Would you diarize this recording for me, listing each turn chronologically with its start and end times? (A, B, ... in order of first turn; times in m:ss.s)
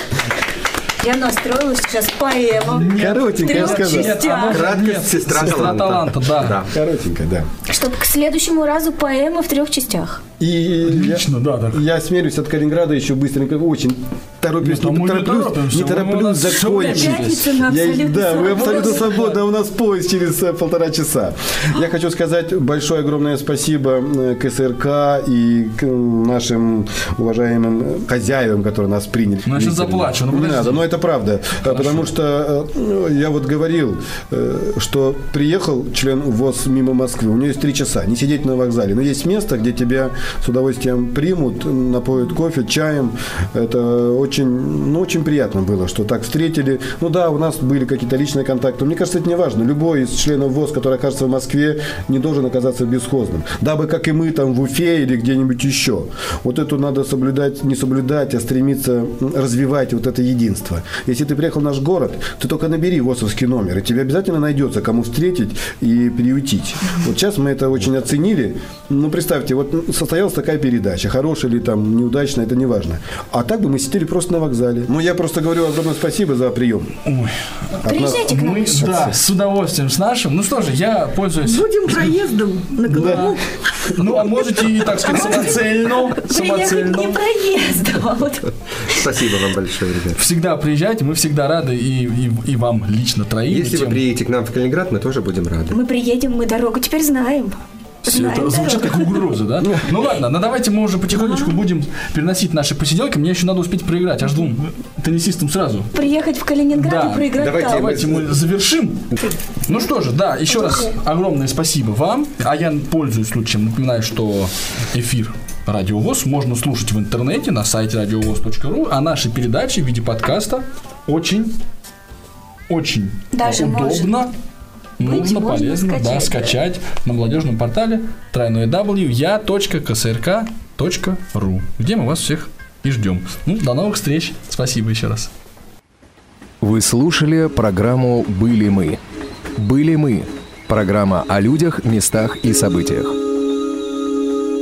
0:01.0-0:04.6 A
0:02.7-0:06.6 B
0:02.9-0:04.3 C
0:04.4-0:06.7 D
0:06.7-0:07.5 C
0:07.7-0:10.2 A
0:10.4-1:16.9 C
0:10.8-0:11.8 B
0:14.6-0:17.5 B
0:16.6-0:19.3 A
0:18.5-0:19.4 B
0:29.4-0:30.8 B
0:31.6-0:32.1 B
1:17.0-1:17.3 B
1:17.8-1:18.3 C
1:17.8-1:19.0 A
1:18.0-1:21.6 B
1:18.8-1:19.1 C
1:21.4-1:24.0 E
1:22.9-1:27.2 B
1:26.1-1:28.5 A
1:28.8-1:30.2 D
1:30.1-1:34.0 B
1:33.5-1:35.8 D
1:35.7-1:39.2 A
1:38.0-1:45.9 B
1:41.1-1:41.6 A
1:45.9-1:47.9 A
1:46.7-1:49.1 B
1:47.4-1:48.3 D
1:49.6-2:01.5 B
1:50.6-1:50.9 A
2:02.7-2:04.3 B
2:03.3-2:04.2 A
2:05.0-2:15.3 B
2:05.0-2:06.5 A
2:16.6-2:19.0 F
2:19.6-2:23.2 F